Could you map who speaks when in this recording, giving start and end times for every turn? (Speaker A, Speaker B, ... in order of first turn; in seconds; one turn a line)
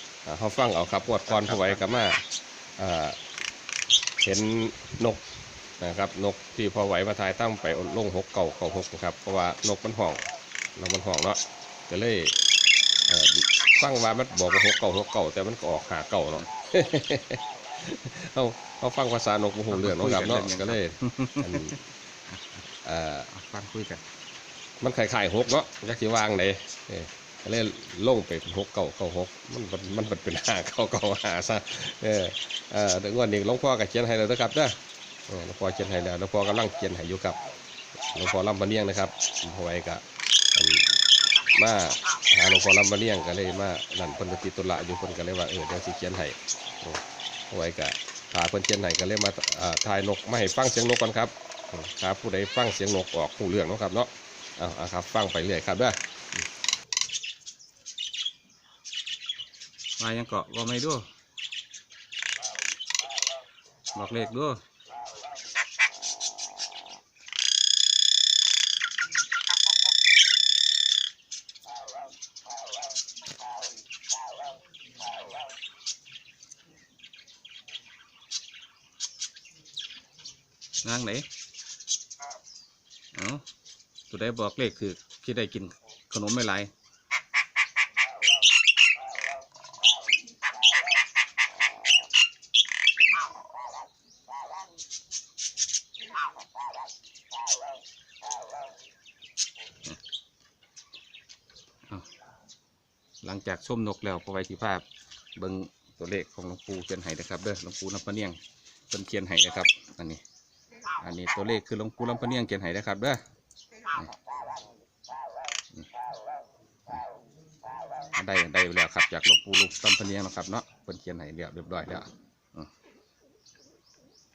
Speaker A: 0.3-2.2
Speaker B: 1.3-1.8
Speaker A: 2.8-3.2
Speaker A: 4.2-5.2
Speaker A: 5.8-10.2
Speaker A: 10.8-12.4
Speaker A: 13.1-21.8
Speaker B: 19.7-21.8
Speaker B: 22.3-22.6
Speaker A: 22.8-23.3
Speaker B: 23.3-24.0
Speaker A: 24.8-34.8
Speaker A: 35.3-37.4
Speaker A: 38.1-40.0
Speaker A: 40.5-41.0
Speaker A: 41.5-56.5
Speaker B: 60.0-61.0
Speaker B: 63.9-64.6
Speaker B: 80.8-81.3
Speaker B: 83.1-83.4
Speaker B: 84.1-86.7
Speaker B: 103.2-104.8
Speaker B: 105.4-108.4
Speaker B: 108.9-110.2
Speaker B: 111.0-113.2
Speaker B: 118.2-122.7